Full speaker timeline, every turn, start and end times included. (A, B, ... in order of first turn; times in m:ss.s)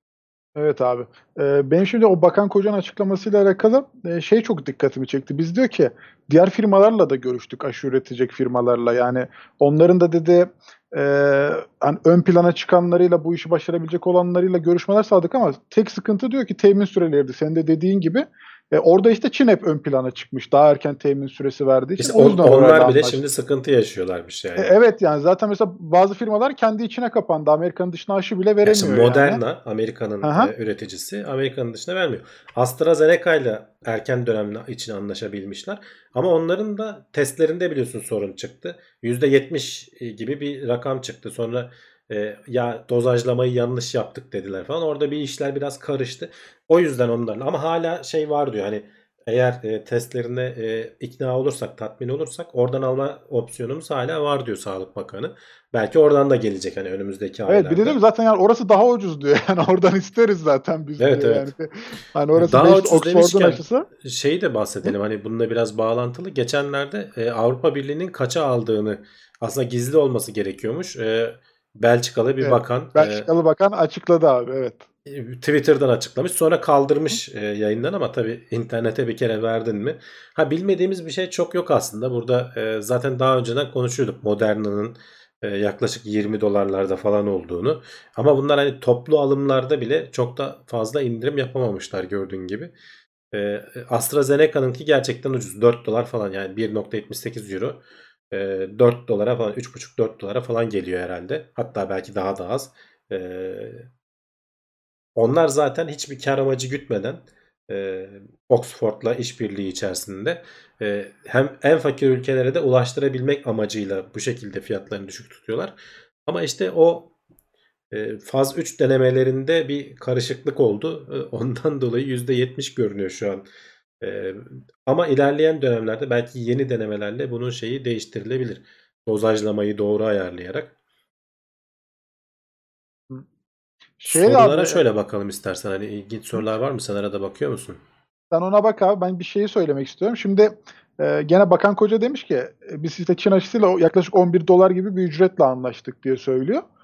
0:00.6-0:23.2 A
0:22.0-0:24.7 B
0:24.6-0:29.4 A
0:28.6-0:58.0 B
0:30.2-0:30.5 A
0:57.5-1:03.9 A
1:01.0-1:01.5 B
1:02.4-1:13.3 B
1:12.4-1:14.9 A
1:15.1-1:32.7 B
1:33.3-1:43.9 B
1:45.2-1:57.1 B
1:57.9-2:03.5 B
2:04.0-2:10.7 B
2:14.0-2:14.8 A
2:14.1-2:17.8 B
2:18.3-2:26.6 A